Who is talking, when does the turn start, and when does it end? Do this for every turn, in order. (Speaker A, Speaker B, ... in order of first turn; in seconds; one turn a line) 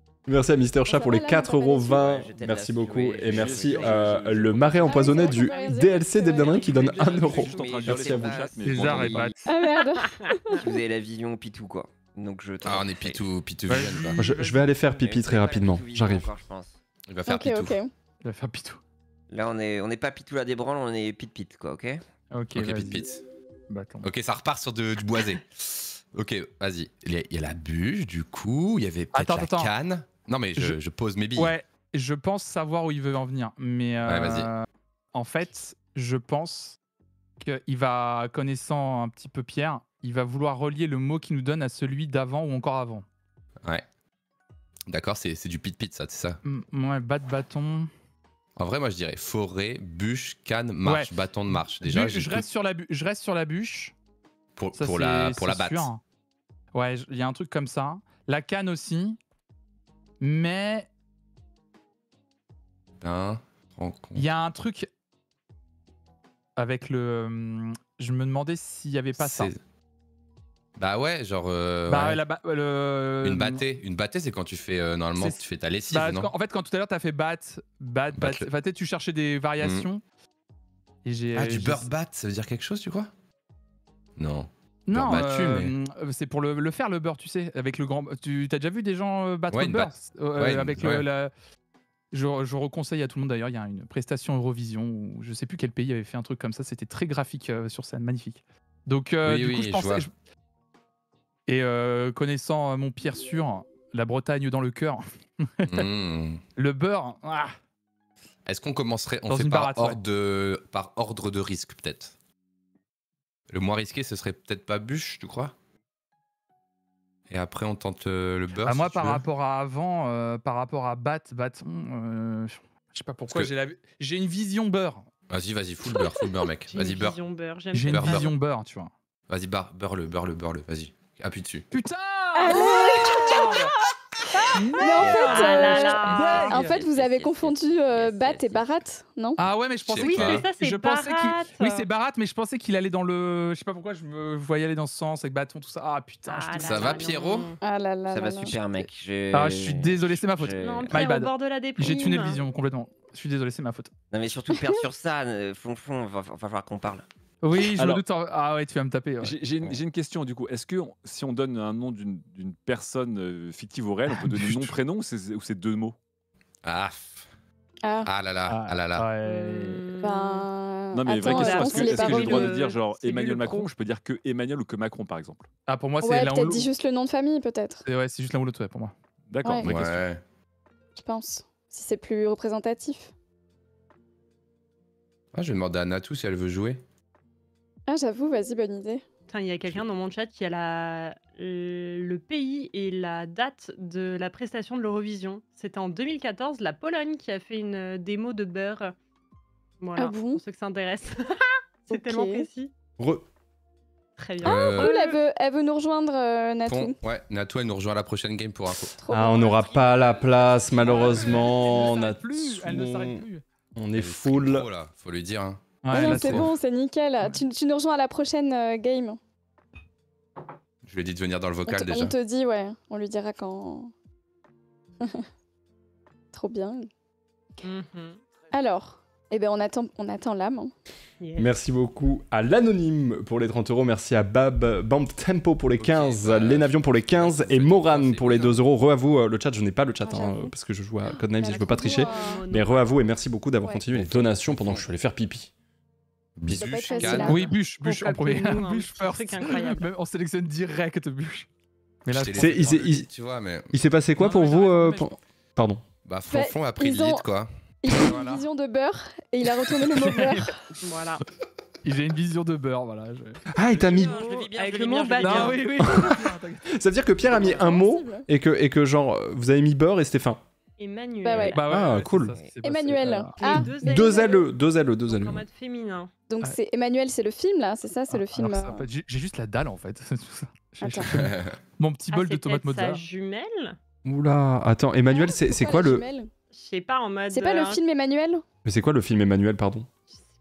Speaker A: 0.2-8.5
Speaker B: 0.9-2.0
Speaker C: 1.9-4.1
Speaker D: 3.2-5.4
Speaker B: 4.8-6.7
Speaker E: 6.2-7.0
Speaker C: 6.6-9.4
Speaker D: 7.0-9.3
Speaker F: 8.6-9.3
Speaker B: 9.4-10.7
Speaker E: 9.8-10.1
Speaker C: 10.6-13.2
Speaker G: 12.6-14.3
Speaker F: 13.7-14.7
Speaker A: 14.2-16.3
Speaker C: 14.8-16.8
Speaker G: 17.1-17.8
Speaker B: 17.2-17.9
Speaker F: 18.2-18.8
Speaker C: 19.3-22.0
Speaker F: 22.3-23.1
Speaker G: 22.5-23.2
Speaker F: 23.7-24.1
Speaker G: 24.0-31.5
Speaker F: 29.1-29.7
Speaker F: 31.4-36.8
Speaker G: 34.0-34.5
Speaker F: 37.4-43.0
Speaker G: 44.9-46.4
Speaker F: 46.4-47.9
Speaker G: 48.6-52.4
Speaker F: 50.8-53.9
Speaker G: 54.5-55.9
Speaker F: 54.7-56.0
Speaker F: 56.7-59.2
Speaker F: 60.2-60.9
Speaker G: 63.0-64.3
Speaker F: 64.1-64.9
Speaker F: 66.5-69.5
Speaker G: 69.2-69.6
Speaker G: 70.8-72.2
Speaker F: 71.9-73.6
Speaker G: 73.2-76.3
Speaker F: 75.1-80.0
Speaker G: 78.1-78.5
Speaker G: 79.6-79.9
Speaker F: 81.0-81.9
Speaker G: 81.3-83.1
Speaker G: 84.2-85.7
Speaker F: 84.9-91.3
Speaker G: 89.5-91.0
Speaker F: 92.1-100.1
Speaker G: 99.2-100.0
Speaker F: 101.5-105.9
Speaker G: 105.7-106.4
Speaker F: 106.6-107.5
Speaker G: 108.5-112.1
Speaker F: 109.3-110.0
Speaker G: 113.5-115.5
Speaker G: 117.3-119.2
Speaker F: 118.6-125.1
Speaker G: 125.3-127.2
Speaker E: 126.7-128.3
Speaker F: 127.7-128.9
Speaker G: 127.8-128.3
Speaker G: 129.3-131.7
Speaker F: 131.7-133.7
Speaker B: 132.3-133.8
Speaker E: 132.8-133.6
Speaker E: 134.4-136.7
Speaker B: 134.5-139.4
Speaker F: 134.5-136.8
Speaker C: 135.0-138.8
Speaker F: 139.4-146.9
Speaker G: 139.8-140.5
Speaker E: 139.9-141.8
Speaker E: 146.3-147.6
Speaker G: 146.6-147.5
Speaker B: 147.6-148.8
Speaker C: 148.1-151.1
Speaker F: 149.3-153.9
Speaker E: 150.6-152.4
Speaker C: 154.1-157.0
Speaker B: 154.5-154.8
Speaker F: 157.4-159.4
Speaker D: 157.7-158.0
Speaker D: 159.2-165.9
Speaker F: 164.1-164.7
Speaker G: 166.6-167.3
Speaker B: 167.8-168.1
Speaker G: 168.0-169.1
Speaker F: 168.5-169.9
Speaker E: 169.2-170.5
Speaker B: 170.0-172.5
Speaker D: 170.9-175.5
Speaker E: 171.2-173.7
Speaker F: 175.7-176.7
Speaker B: 176.0-177.8
Speaker F: 177.8-178.9
Speaker D: 179.3-180.1
Speaker B: 179.4-179.7
Speaker G: 179.6-180.2
Speaker B: 180.9-183.1
Speaker G: 185.3-186.8
Speaker B: 187.9-189.0
Speaker E: 189.3-198.9
Speaker E: 199.8-202.7
Speaker B: 199.9-200.4
Speaker B: 201.9-202.5
Speaker A: 203.0-203.2
Speaker E: 204.2-205.2
Speaker G: 204.4-204.9
Speaker B: 204.4-207.0
Speaker G: 206.7-208.9
Speaker B: 208.9-209.9
Speaker A: 209.1-214.7
Speaker C: 209.9-211.0
Speaker F: 210.8-213.4
Speaker G: 213.9-216.5
Speaker F: 215.8-216.5
Speaker B: 215.9-219.2
Speaker G: 220.8-222.2
Speaker B: 221.6-223.9
Speaker B: 226.3-226.9
Speaker E: 227.6-228.2
Speaker B: 228.5-230.7
Speaker E: 231.2-231.5
Speaker A: 231.3-245.5
Speaker G: 235.8-238.6
Speaker B: 240.0-240.5
Speaker B: 241.3-242.4
Speaker E: 241.5-243.0
Speaker G: 243.9-244.9
Speaker G: 246.4-247.4
Speaker B: 246.5-247.6
Speaker E: 246.9-249.9
Speaker F: 247.2-251.5
Speaker F: 252.1-252.8
Speaker G: 252.1-253.7
Speaker A: 252.3-253.1
Speaker A: 253.7-255.8
Speaker F: 254.2-255.2
Speaker G: 256.0-257.5
Speaker B: 256.3-257.3
Speaker B: 257.8-260.6
Speaker F: 257.9-258.4
Speaker F: 259.9-260.5
Speaker E: 260.8-261.2
Speaker F: 261.8-264.5
Speaker A: 263.5-264.1
Speaker C: 263.6-265.8
Speaker E: 264.0-265.8
Speaker F: 265.1-266.6
Speaker A: 265.8-270.4
Speaker B: 267.2-268.3
Speaker E: 270.8-272.0
Speaker B: 271.2-271.6
Speaker F: 271.4-273.7
Speaker A: 271.6-272.4
Speaker C: 272.3-272.6
Speaker B: 272.6-274.3
Speaker E: 273.4-274.5
Speaker A: 273.8-275.4
Speaker E: 275.0-276.1
Speaker B: 276.3-278.9
Speaker F: 278.1-283.1
Speaker B: 280.8-281.1
Speaker G: 281.1-281.6
Speaker E: 282.1-283.8
Speaker A: 284.0-286.0
Speaker B: 285.1-286.3
Speaker E: 286.5-287.8
Speaker B: 287.3-288.4
Speaker A: 288.6-289.9